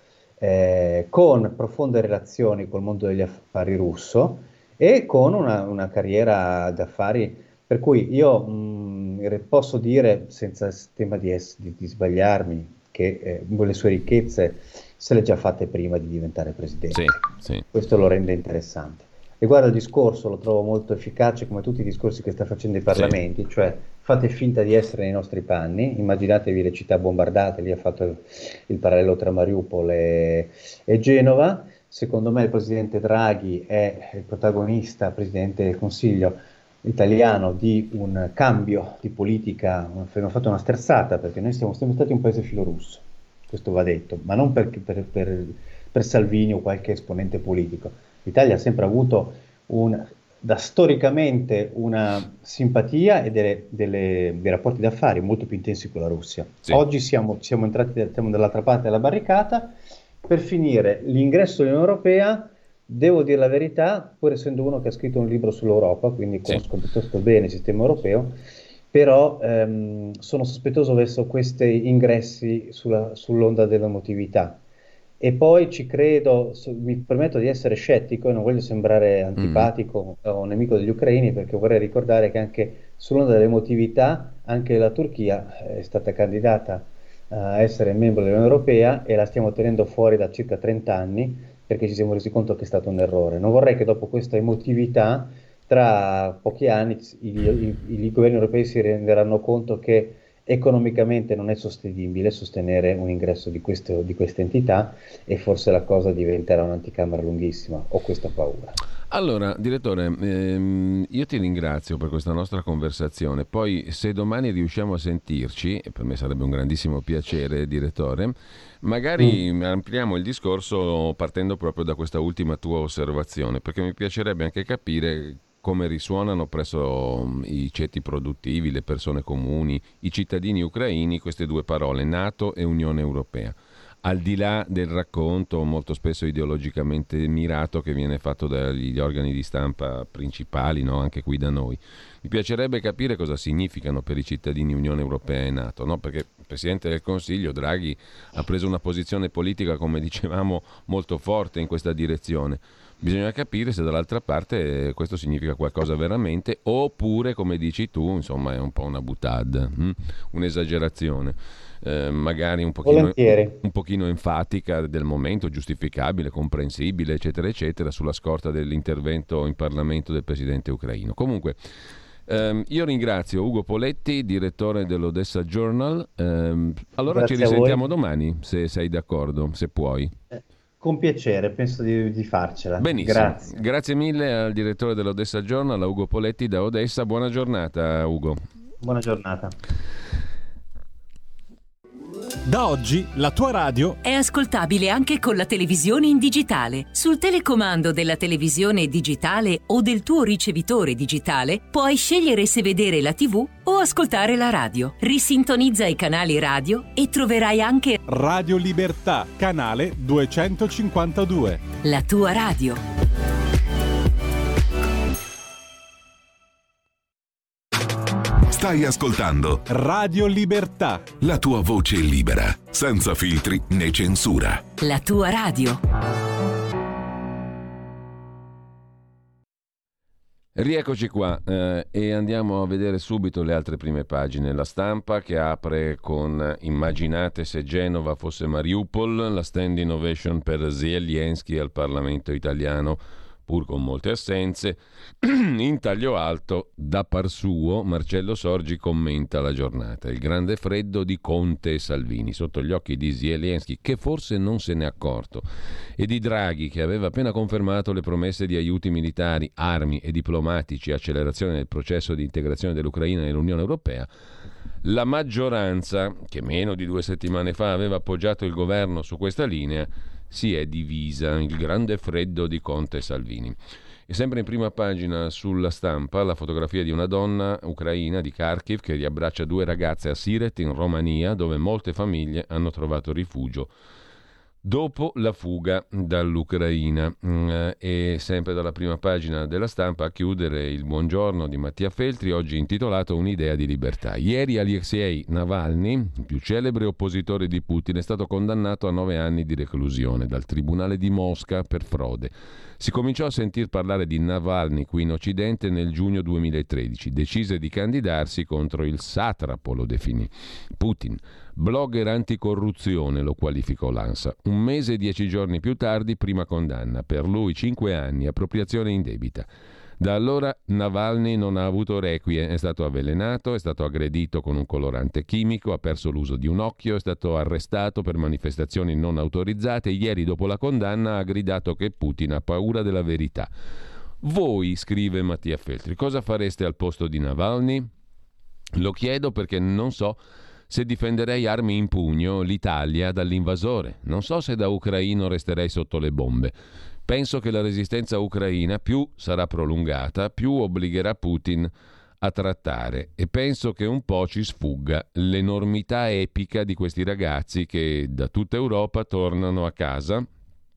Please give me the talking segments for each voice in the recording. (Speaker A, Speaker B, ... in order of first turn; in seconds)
Speaker A: 0.4-68.4, 68.9-74.6, 75.2-108.8, 162.8-163.6, 177.1-177.8, 180.3-183.6, 188.8-189.5
Speaker B: 16.9-17.6, 79.4-79.7, 109.1-171.6, 172.3-180.1, 182.8-188.4, 230.5-255.4, 256.0-264.1, 264.8-273.6, 274.1-283.7, 284.6-333.5, 334.2-337.9, 338.7-346.5, 347.1-360.3
Speaker C: 192.4-194.0, 208.1-211.6, 219.7-221.1
Speaker D: 194.0-208.0, 211.8-212.8, 224.8-225.8
Speaker E: 218.5-219.6, 221.2-224.6